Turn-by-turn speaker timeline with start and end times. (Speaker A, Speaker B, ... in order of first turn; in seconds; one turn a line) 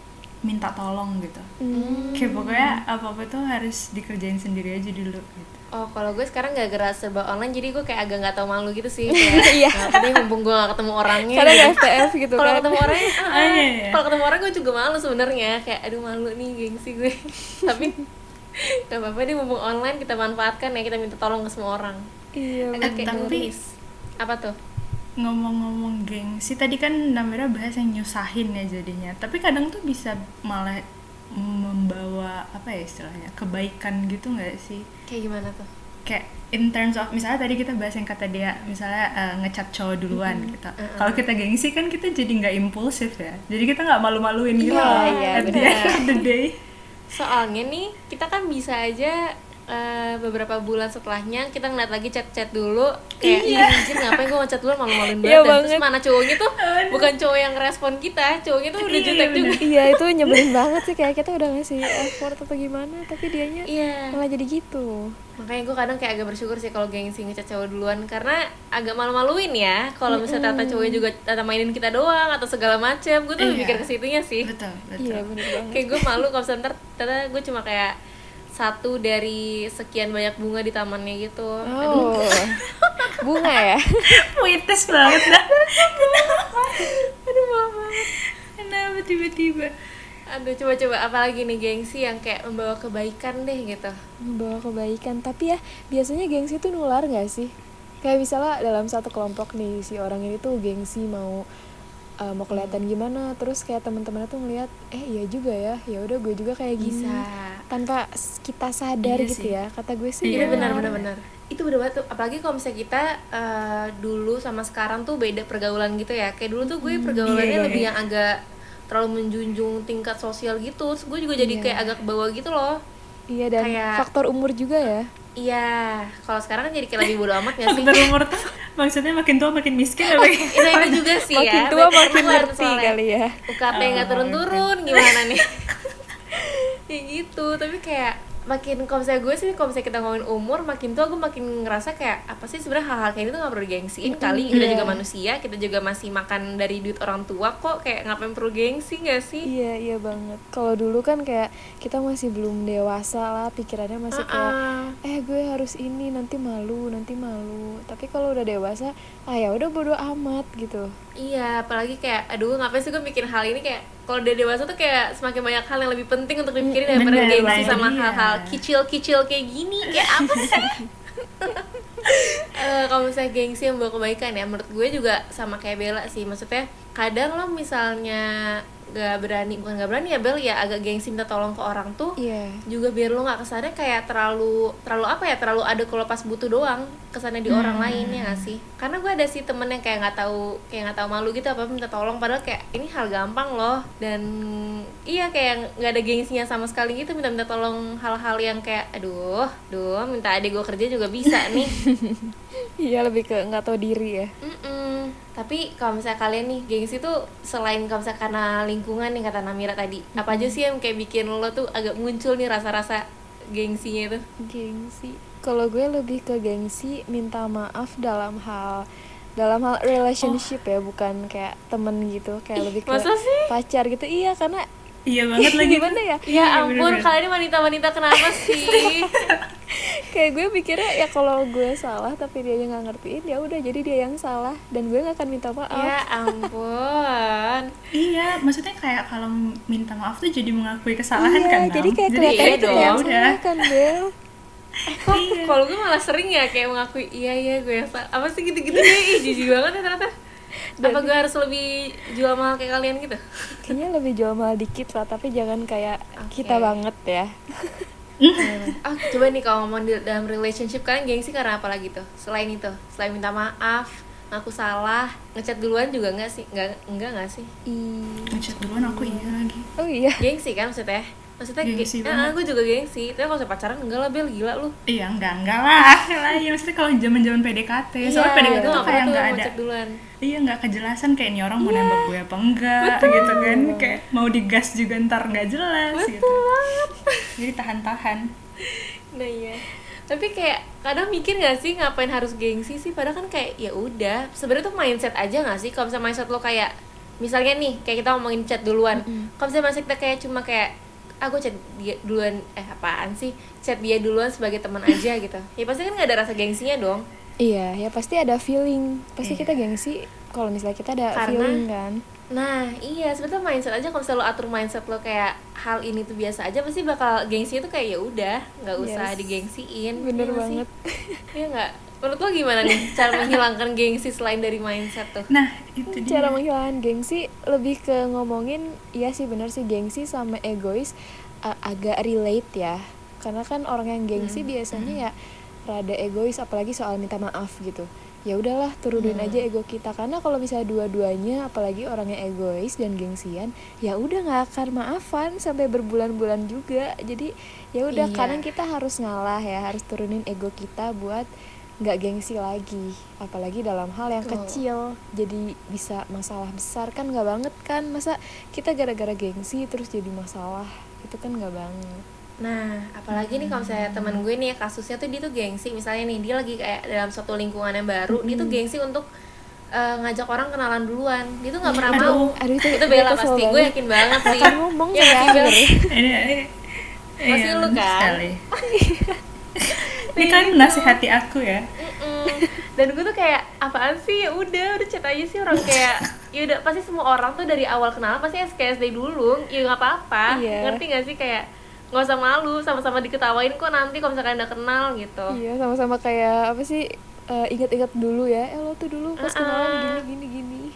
Speaker A: 0.4-1.5
Speaker B: 1.6-2.8
Speaker C: 1.7-2.3
Speaker A: 2.1-5.6
Speaker C: 5.8-11.8
Speaker B: 9.1-9.9
Speaker B: 11.3-13.1
Speaker C: 12.3-17.9
Speaker A: 13.2-14.0
Speaker B: 17.7-18.0
Speaker C: 18.9-22.0
Speaker B: 22.4-23.4
Speaker C: 22.8-23.7
Speaker A: 22.8-23.5
Speaker C: 24.2-24.5
Speaker A: 25.2-30.8
Speaker A: 31.4-34.8
Speaker C: 35.1-35.7
Speaker A: 36.0-46.5
Speaker B: 40.1-40.5
Speaker C: 40.8-41.2
Speaker B: 44.6-46.1
Speaker C: 44.6-46.2
Speaker C: 47.1-49.2
Speaker C: 49.7-59.6
Speaker A: 53.3-54.2
Speaker B: 53.4-53.7
Speaker B: 55.2-55.8
Speaker A: 56.6-57.1
Speaker A: 58.8-59.6
Speaker B: 59.6-64.9
Speaker A: 60.3-60.5
Speaker C: 63.7-64.1
Speaker C: 65.4-74.5
Speaker B: 70.1-71.0
Speaker A: 73.4-73.9
Speaker A: 74.4-75.3
Speaker B: 75.0-76.2
Speaker C: 75.7-77.9
Speaker C: 78.6-82.2
Speaker B: 81.7-82.6
Speaker C: 82.8-83.1
Speaker B: 83.2-84.2
Speaker A: 84.2-86.9
Speaker C: 85.0-88.1
Speaker A: 88.6-89.7
Speaker C: 90.3-93.9
Speaker B: 94.3-97.5
Speaker B: 98.0-101.4
Speaker B: 102.2-110.9
Speaker C: 102.5-102.8
Speaker C: 106.8-107.5
Speaker A: 109.0-109.5
Speaker A: 110.2-111.1
Speaker C: 110.3-118.3
Speaker B: 116.8-117.8
Speaker A: 117.2-117.9
Speaker C: 118.9-122.8
Speaker B: 121.4-121.9
Speaker B: 123.3-125.1
Speaker C: 123.6-124.0
Speaker C: 125.4-128.3
Speaker A: 127.6-131.2
Speaker C: 130.3-132.9
Speaker B: 131.3-133.3
Speaker C: 133.5-149.5
Speaker A: 133.7-135.3
Speaker B: 144.0-145.0
Speaker A: 144.5-144.8
Speaker B: 149.4-154.5
Speaker C: 154.2-154.9
Speaker B: 155.0-160.9
Speaker C: 161.2-170.7
Speaker B: 166.6-167.8
Speaker A: 166.9-168.6
Speaker A: 169.9-170.6
Speaker B: 170.4-170.7
Speaker C: 172.5-178.2
Speaker C: 178.9-182.1
Speaker B: 182.2-182.6
Speaker C: 182.7-201.7
Speaker A: 187.5-188.5
Speaker B: 201.8-202.3
Speaker B: 202.8-204.3
Speaker C: 204.4-213.0
Speaker B: 210.2-210.5
Speaker C: 213.5-214.2
Speaker B: 214.5-218.8
Speaker B: 219.4-224.6
Speaker C: 222.6-223.5
Speaker A: 225.1-227.1
Speaker B: 225.4-226.2
Speaker C: 226.3-229.1
Speaker A: 229.1-229.4
Speaker B: 230.1-236.0
Speaker C: 235.7-237.7
Speaker A: 237.9-243.7
Speaker B: 241.2-244.1
Speaker C: 242.2-243.0
Speaker C: 245.0-250.1
Speaker A: 245.1-245.6
Speaker B: 248.8-249.2
Speaker B: 250.8-251.1
Speaker C: 250.8-253.7
Speaker B: 253.7-257.9
Speaker C: 256.2-256.7
Speaker A: 258.2-258.7
Speaker C: 258.4-267.5
Speaker B: 267.7-270.2
Speaker A: 268.3-269.7
Speaker C: 270.2-274.7
Speaker A: 271.6-272.3
Speaker A: 274.9-279.5
Speaker C: 278.1-279.9
Speaker B: 278.4-278.9
Speaker A: 280.2-286.4
Speaker C: 281.6-282.1
Speaker C: 282.8-283.5
Speaker B: 283.0-284.0
Speaker C: 286.0-287.3
Speaker A: 287.4-288.3
Speaker C: 288.6-300.7
Speaker B: 299.0-299.3
Speaker C: 301.2-307.0
Speaker B: 307.4-311.9
Speaker A: 309.2-309.5
Speaker C: 311.1-311.6
Speaker C: 312.3-320.6
Speaker B: 318.8-319.3
Speaker B: 320.0-321.2
Speaker C: 321.3-325.3
Speaker A: 325.3-326.4
Speaker B: 325.9-330.9
Speaker B: 331.5-335.1
Speaker C: 334.1-334.4
Speaker B: 335.7-351.3
Speaker C: 339.0-339.4
Speaker C: 347.9-348.4
Speaker B: 351.8-362.0
Speaker C: 354.2-354.6
Speaker C: 362.4-369.0
Speaker A: 363.1-364.2
Speaker B: 368.1-368.6
Speaker C: 369.8-375.6
Speaker B: 371.6-375.9
Speaker A: 371.9-372.3
Speaker A: 375.9-376.5
Speaker A: 377.2-378.4
Speaker C: 377.2-378.2
Speaker B: 378.6-379.2
Speaker A: 379.6-381.6
Speaker C: 379.8-381.0
Speaker C: 381.8-395.3
Speaker B: 390.3-390.8
Speaker B: 395.3-400.7
Speaker C: 399.2-400.0